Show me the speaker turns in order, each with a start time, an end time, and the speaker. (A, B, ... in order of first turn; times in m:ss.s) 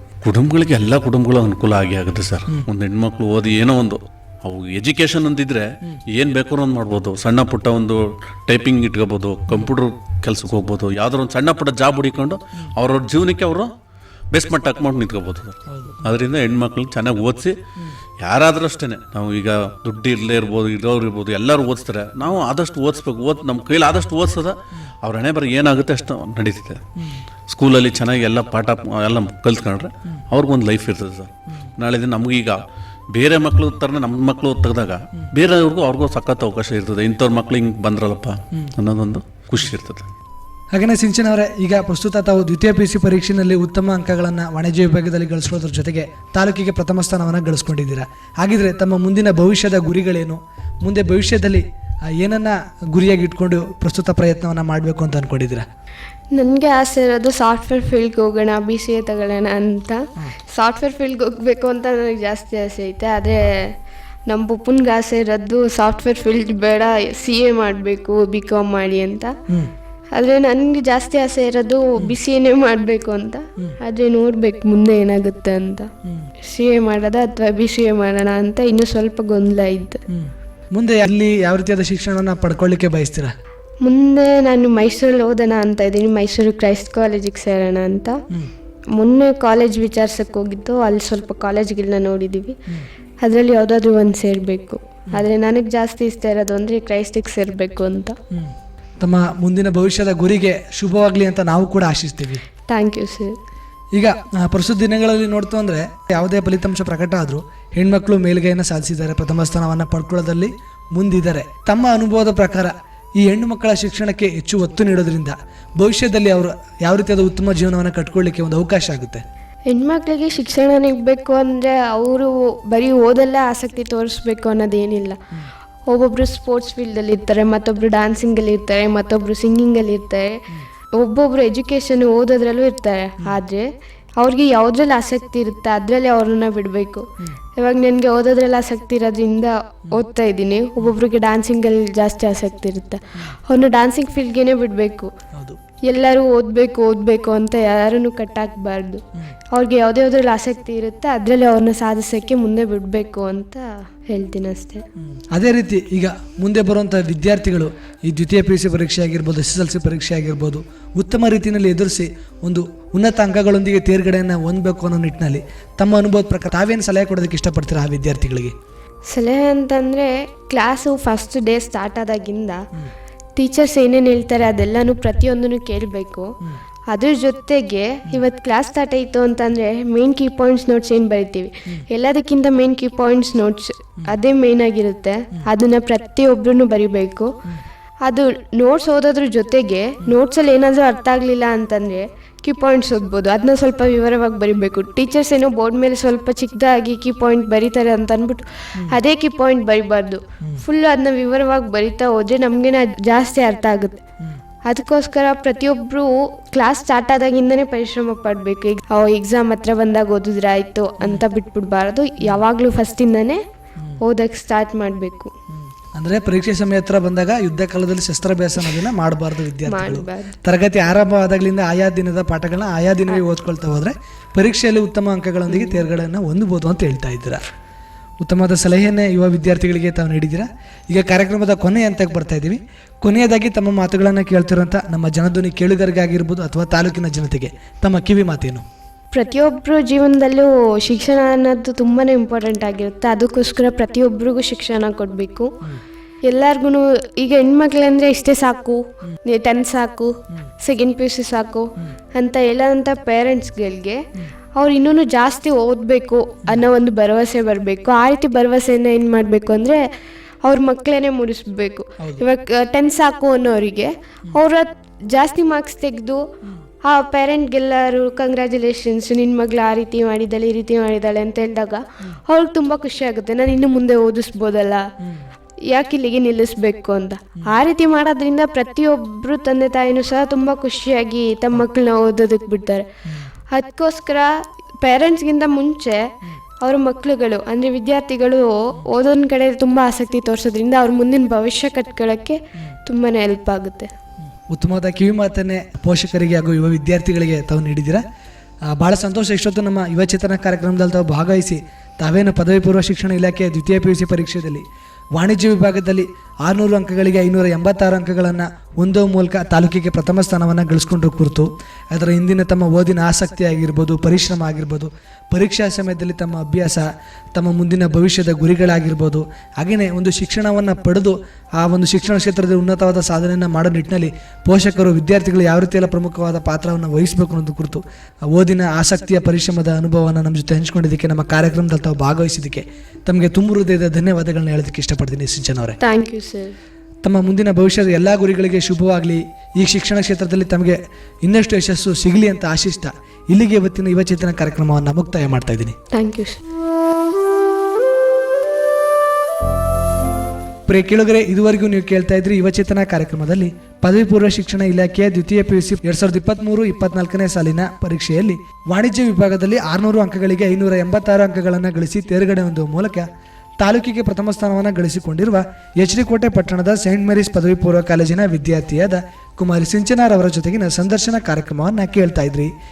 0:00.2-0:13.7 A
0:14.3-0:17.5 A
0:15.7-0:16.0 B
0:18.2-0:26.9 A
0:27.5-0:32.6 A
0:33.1-0:40.1 A
0:40.7-0:55.6 B
0:56.3-1:03.7 C
1:04.3-1:09.4 C
1:10.1-1:20.0 C
1:16.0-1:16.3 B
1:20.1-1:23.3 B
1:23.8-1:28.2 C
1:28.9-1:32.6 C
1:33.2-1:38.2 C
1:38.3-1:42.4 B
1:42.7-1:43.4 C
1:43.9-1:59.2 B
1:59.7-2:05.2 C
2:05.9-2:10.4 C
2:10.9-2:13.6 C
2:14.2-2:25.1 C
2:25.3-2:25.6 B
2:25.8-2:34.8 C
2:35.0-2:48.5 B
2:49.1-2:52.6 C
2:53.4-2:56.3 C
2:56.9-3:07.3 C
3:08.0-3:24.0 C
3:24.6-3:33.4 C
3:34.0-3:35.3 C
3:35.5-3:47.4 B
3:39.6-3:40.4 C
3:48.2-3:58.6 B
3:59.1-4:05.5 C
4:06.2-4:19.8 C
4:20.4-4:26.2 C
4:22.0-4:22.2 B
4:26.8-4:34.9 C
4:35.7-4:42.8 C
4:43.5-4:53.9 C
4:54.5-4:58.0 B
4:58.7-5:35.8 B
5:35.8-5:36.5 C
5:37.0-5:45.8 B
5:45.9-5:46.4 C
5:50.7-6:03.1 B
6:03.6-6:12.5 B